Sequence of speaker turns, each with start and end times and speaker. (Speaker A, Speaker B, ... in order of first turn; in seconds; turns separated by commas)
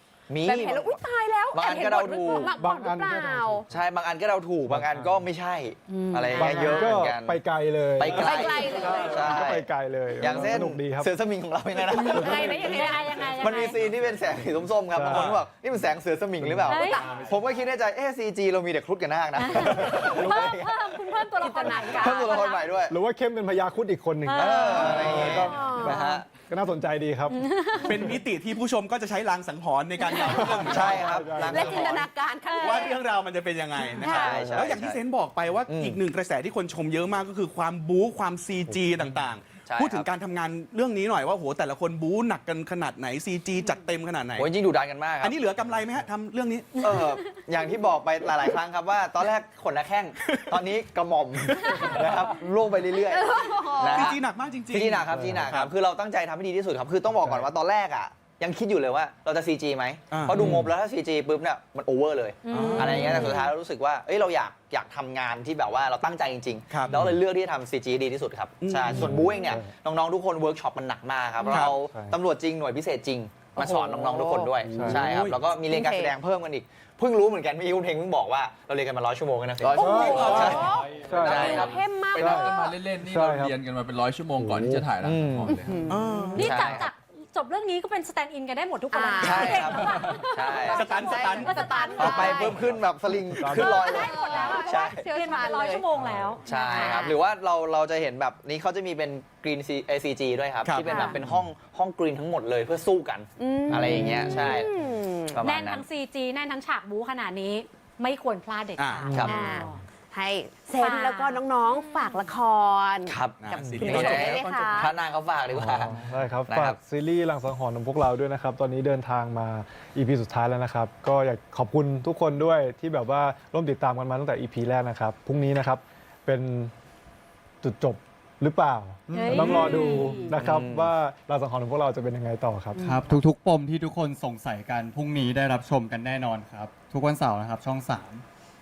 Speaker A: 0.3-1.0, Speaker B: 0.4-3.6, Speaker A: 1.5-2.5, Speaker C: 2.5-3.6, Speaker A: 3.7-7.4, Speaker C: 4.7-5.3, Speaker D: 5.9-6.9, Speaker C: 6.4-11.1, Speaker A: 8.0-21.0, Speaker B: 8.2-9.4, Speaker B: 12.0-13.7, Speaker D: 12.0-13.8, Speaker C: 14.9-15.3, Speaker E: 15.1-15.4, Speaker C: 16.4-17.0, Speaker D: 16.7-17.0, Speaker B: 16.8-17.1, Speaker F: 17.0-17.4, Speaker D: 19.4-22.6, Speaker C: 20.0-20.5, Speaker B: 21.4-22.5, Speaker A: 21.6-22.9, Speaker C: 22.9-28.2, Speaker D: 24.2-25.7, Speaker A: 24.3-26.3, Speaker B: 24.9-26.1, Speaker E: 25.2-25.4, Speaker D: 27.3-28.1, Speaker E: 27.8-44.5, Speaker C: 30.2-31.8, Speaker A: 30.5-32.0, Speaker B: 31.4-33.0, Speaker D: 32.5-33.0, Speaker D: 34.0-34.3, Speaker A: 34.0-35.0, Speaker C: 34.3-34.7, Speaker A: 35.7-36.0, Speaker A: 39.6-40.1, Speaker A: 44.4-45.4, Speaker E: 45.2-46.9, Speaker A: 46.8-54.2, Speaker E: 50.2-50.6, Speaker E: 51.4-52.0, Speaker B: 53.1-54.1, Speaker E: 53.9-55.7, Speaker A: 54.7-81.8, Speaker C: 55.1-55.4, Speaker E: 60.1-60.7, Speaker D: 62.4-63.3, Speaker E: 62.5-63.3, Speaker B: 62.7-63.5, Speaker E: 66.7-67.0, Speaker E: 68.6-69.2, Speaker C: 68.8-69.7, Speaker E: 71.5-71.7, Speaker C: 71.7-72.2, Speaker C: 74.6-75.1, Speaker E: 74.8-75.4, Speaker B: 75.7-76.1, Speaker F: 79.6-86.0, Speaker C: 79.8-80.5, Speaker B: 79.8-82.8, Speaker E: 80.1-80.4, Speaker C: 81.0-83.6, Speaker C: 84.4-84.9, Speaker A: 85.0-85.5, Speaker B: 85.5-86.6, Speaker E: 85.9-86.5, Speaker D: 86.3-92.6, Speaker A: 86.4-86.9, Speaker B: 88.9-92.7, Speaker A: 89.2-90.9, Speaker F: 89.9-90.2, Speaker E: 90.7-91.8, Speaker A: 91.9-95.1, Speaker C: 93.3-94.5, Speaker B: 93.5-95.9, Speaker D: 93.5-97.1, Speaker C: 95.9-96.3, Speaker A: 96.5-104.8, Speaker B: 96.5-97.2, Speaker E: 100.6-101.1, Speaker B: 100.9-101.2, Speaker B: 103.4-105.4, Speaker A: 105.3-105.8, Speaker D: 105.4-109.8, Speaker E: 108.8-109.2, Speaker A: 109.1-109.5, Speaker B: 109.2-113.2, Speaker D: 110.8-112.3, Speaker A: 113.0-116.8, Speaker E: 113.4-114.6, Speaker C: 113.6-113.9, Speaker B: 113.8-114.6, Speaker D: 113.8-114.9, Speaker C: 115.5-126.7, Speaker C: 127.6-133.2, Speaker D: 129.1-130.3, Speaker B: 129.9-130.2, Speaker A: 130.3-130.9, Speaker G: 132.8-138.2